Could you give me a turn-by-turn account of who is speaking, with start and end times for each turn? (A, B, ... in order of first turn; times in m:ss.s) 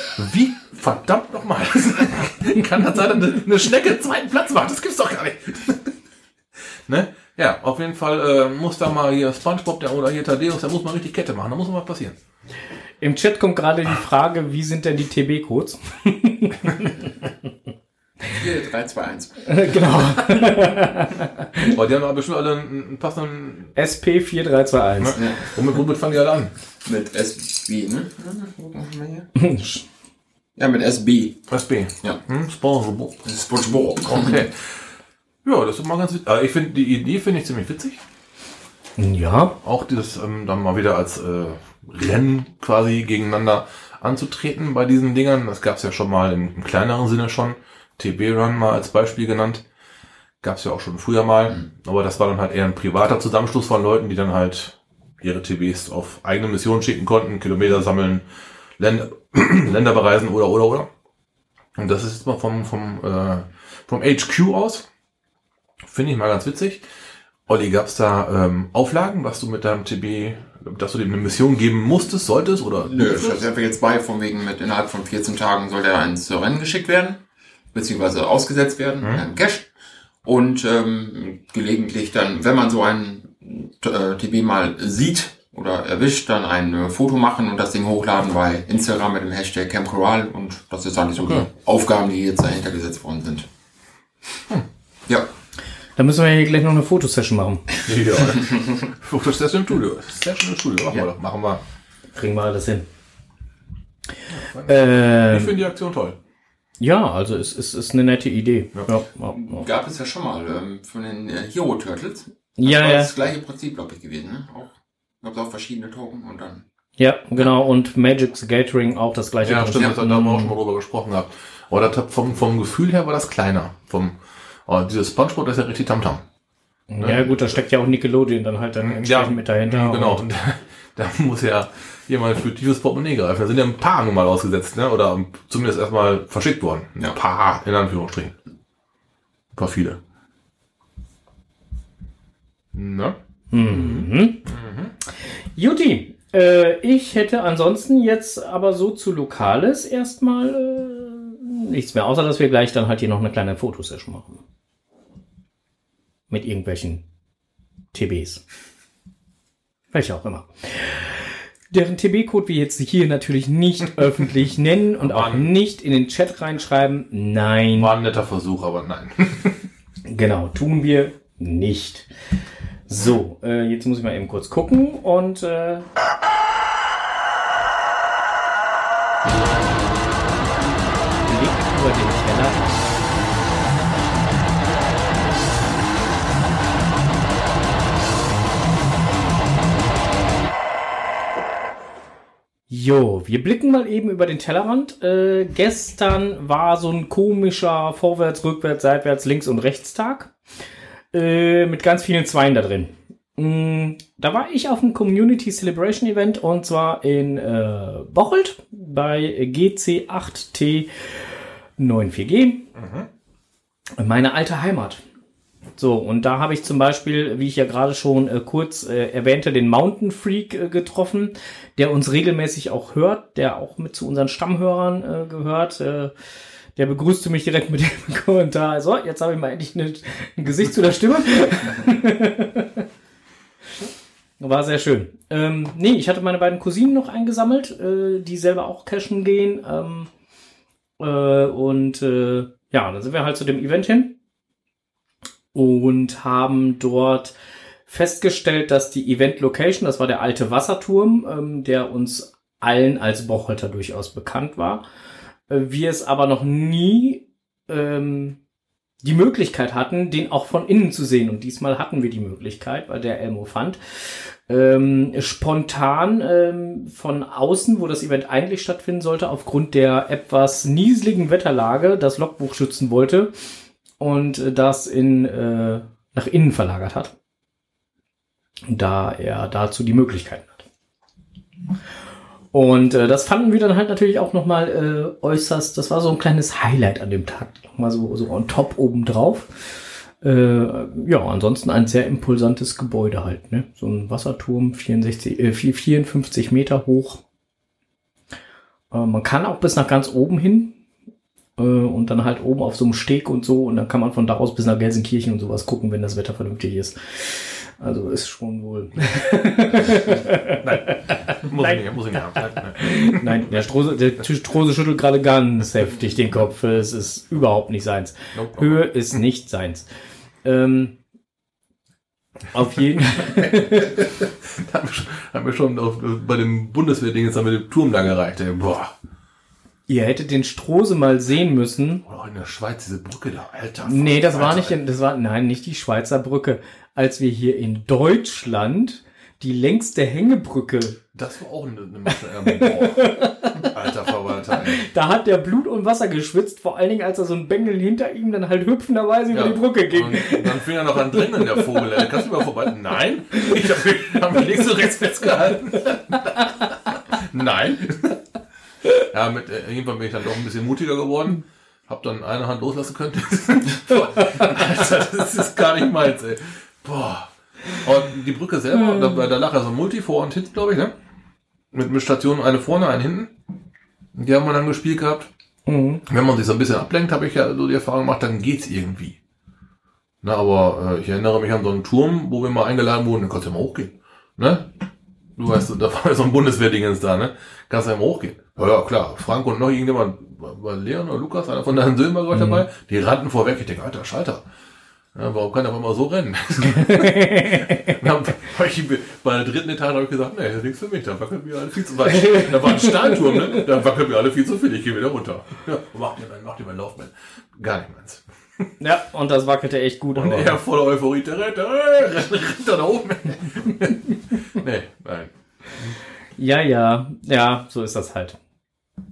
0:00.2-0:05.9 A
0:06.8-0:12.2 A
0:13.0-0:16.9 B
0:18.3-0:19.6 C
0:19.4-0:21.7 B
0:21.7-0:23.7 A
0:23.8-0:25.2 B
0:25.0-0:26.5 A
0:25.2-0:25.6 C
0:26.8-0:29.3 C
0:29.4-0:29.8 B
0:30.6-0:31.4 C
0:31.5-0:33.2 A
0:33.2-0:34.4 C
0:34.0-0:34.9 A
0:35.4-0:38.0 A
0:39.0-0:39.6 B
0:39.6-0:49.6 A
0:50.4-0:58.2 A
0:58.8-1:00.9 A
1:01.8-1:04.9 A
1:05.8-1:06.8 A
1:07.5-1:13.5 A
1:12.8-1:17.2 C
1:17.7-1:19.7 C
1:20.2-1:33.5 C
1:31.2-1:31.5 A
1:36.0-1:37.7 B
1:37.8-1:41.6 A
1:42.1-1:42.9 B
1:44.3-1:46.2 A
1:44.6-1:45.5 B
1:46.8-1:49.6 B
1:49.3-1:56.6 C
1:52.6-1:53.1 B
1:57.0-2:00.5 B
1:59.4-2:06.2 A
2:06.9-2:10.2 B
2:07.0-2:07.6 A
2:08.8-2:18.3 A
2:19.6-2:20.0 A
2:22.7-2:24.9 A
2:23.5-2:24.4 B
2:25.6-2:34.4 B
2:36.3-2:37.0 B
2:37.9-2:38.4 B
2:39.9-2:47.9 B
2:45.0-2:45.5 A
2:47.8-2:49.6 A
2:50.1-2:52.1 B
2:52.9-2:55.9 B
3:01.2-3:03.0 B
3:12.7-3:20.3 B
3:21.1-3:31.2 B
3:31.8-3:32.7 B
3:32.7-3:33.1 A
3:34.0-3:35.0 B
3:35.8-3:46.1 B
3:46.8-3:52.8 B
3:54.4-4:00.1 B
4:01.0-4:04.1 B
4:05.5-4:07.3 B
4:07.9-4:14.8 B
4:15.5-4:18.4 B
4:19.0-4:33.3 B
4:34.0-4:37.1 B
4:38.7-4:40.6 B
4:42.5-4:57.2 B
4:58.9-5:00.7 B
5:01.6-5:11.8 B
5:10.6-5:13.4 A
5:12.8-5:19.8 B
5:18.3-5:18.9 A
5:20.4-5:21.0 B
5:22.5-5:24.0 B
5:23.3-5:28.9 A
5:29.9-5:32.0 B
5:32.0-5:34.7 A
5:33.8-5:41.0 B
5:41.1-5:44.8 A
5:42.5-5:43.6 B
5:44.7-5:50.6 B
5:49.3-5:58.2 A
5:51.4-5:51.6 B
5:59.0-6:10.9 A
6:11.7-6:13.3 A
6:14.1-6:15.3 A
6:15.7-6:16.0 B
6:16.1-6:19.2 A
6:20.2-6:24.7 A
6:25.4-6:34.4 A
6:32.3-6:32.6 B
6:35.1-6:48.6 A
6:36.9-6:38.0 B
6:42.2-6:43.1 B
6:48.8-6:50.6 B
6:50.1-6:56.0 A
6:56.4-6:58.4 B